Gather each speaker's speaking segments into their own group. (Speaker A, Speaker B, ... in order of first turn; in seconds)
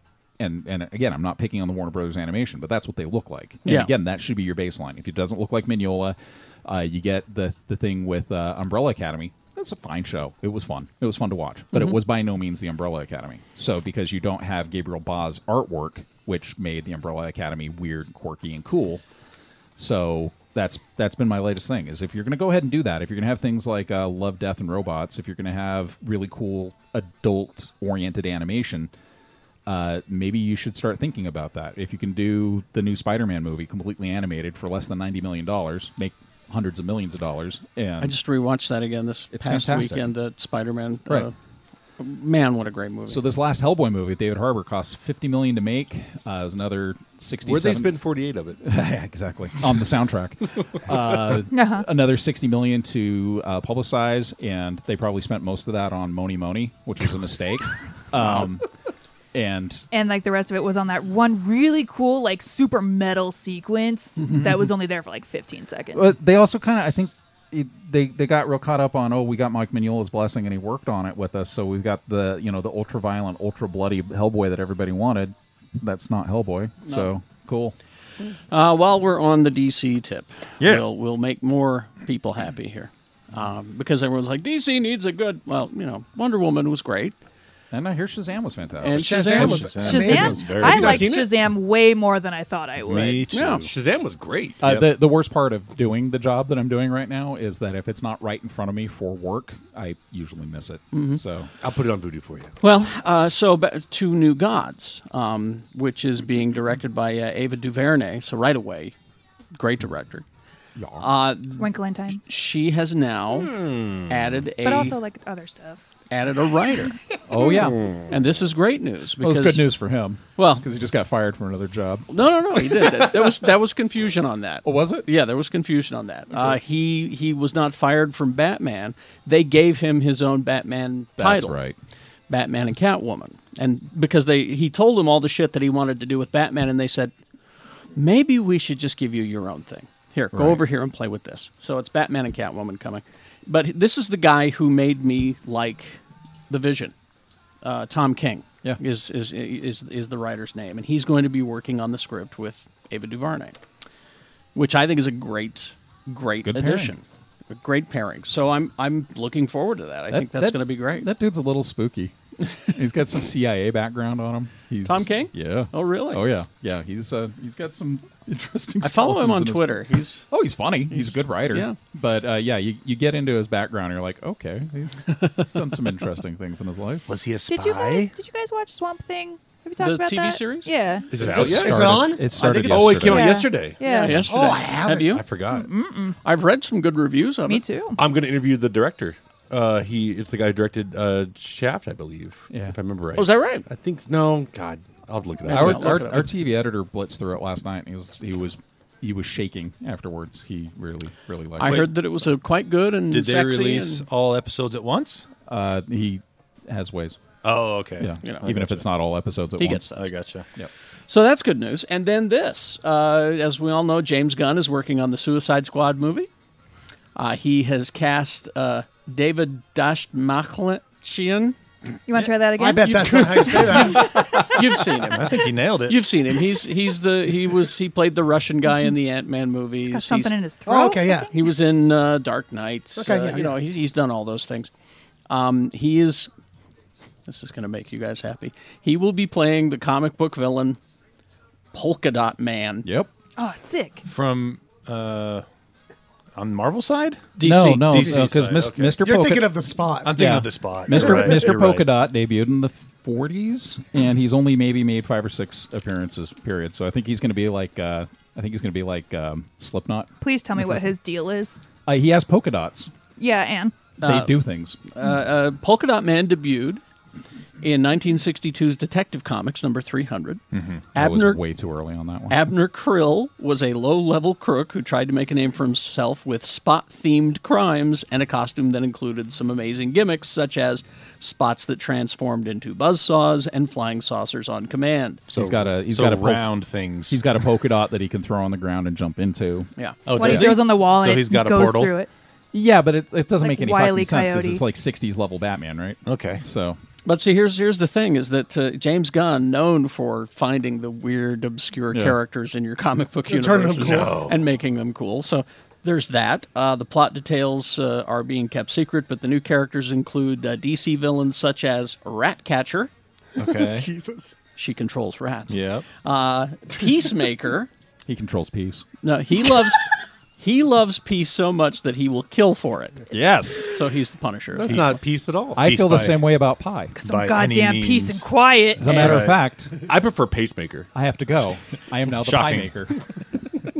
Speaker A: 0.4-19.0, 19.8-28.9, 29.6-38.2, 39.3-40.1, 43.1-47.9, 48.6-58.7, 59.3-59.8, 65.9-77.7, 87.7-89.3, 94.6-101.5, 110.8-111.0, 117.3-117.9, 119.2-122.1, 124.6-125.1, 131.2-131.8, 140.3-140.6, 156.3-156.9, 160.1-162.1, 162.7-177.1, 181.1-183.4, 192.5-192.8, 195.5-202.3, 205.5-207.2, 208.0-209.8, 242.8-243.1, 247.4-249.5, 250.1-260.1, 261.9-262.9, 264.0-264.8, 270.9-272.4, 285.3-286.5, 287.1-290.5, 292.5-296.8, 301.9-302.2, 318.1-318.9, 323.1-323.6, 325.6-326.9, 328.8-329.7, 330.9-332.9
Speaker B: 3.6-3.9, 38.0-41.3, 42.0-43.2, 78.5-87.1, 88.8-90.3, 93.3-93.7, 100.9-101.2, 102.6-108.9, 109.5-110.2, 111.0-115.0, 116.1-116.9, 118.1-119.7, 120.4-120.6, 122.1-131.6, 132.3-137.1, 137.9-146.0, 146.5-146.9, 147.6-153.6, 154.5-161.1, 164.8-166.2, 168.8-170.2, 170.9-171.8, 179.8-180.7, 182.5-182.9, 183.8-185.2, 186.2-187.6, 193.2-193.7, 195.4-196.3, 201.6-204.1, 209.6-210.1, 211.1-216.3, 217.1-221.6, 222.9-230.3, 231.3-234.7, 235.3-236.3, 237.3-240.8, 241.7-242.9, 247.4-248.2, 264.0-264.3, 264.9-266.8, 267.6-270.4, 270.9-271.4, 272.3-285.3, 289.8-290.0, 297.0-312.9, 314.6-317.7, 319.0-319.8, 320.4-323.0, 323.6-325.0
Speaker C: 47.4-48.6, 90.5-91.3, 93.6-94.7, 101.6-102.5, 113.5-114.1, 181.1-183.8, 184.3-185.7, 188.0-196.1, 303.7-304.4, 324.5-326.0, 329.9-330.9
Speaker D: 51.5-51.9, 59.9-66.1, 89.7-93.3, 111.6-112.2, 114.6-115.8, 177.5-181.1, 182.9-184.3, 185.5-186.2, 187.4-188.0, 222.1-224.5, 229.8-231.3, 243.4-244.1, 260.2-261.6, 263.2-263.8, 290.1-292.1, 293.4-294.6, 326.9-329.2
Speaker E: 88.8-90.5, 181.3-182.3, 184.3-185.2, 222.5-224.3, 230.7-231.3, 232.9-233.5, 249.0-250.4, 250.9-251.5, 303.3-304.3, 313.4-314.3
Speaker F: 88.9-91.0, 92.8-93.7, 177.1-178.1, 203.1-205.2, 207.4-208.8, 209.9-210.4, 225.1-226.1, 244.1-245.4, 246.3-247.3, 247.8-249.0, 250.0-251.8, 270.5-270.8, 285.3-287.2, 290.1-291.9, 296.1-296.4, 313.4-313.9, 315.5-315.8, 325.7-326.1, 327.0-328.2, 328.9-329.3, 332.2-332.7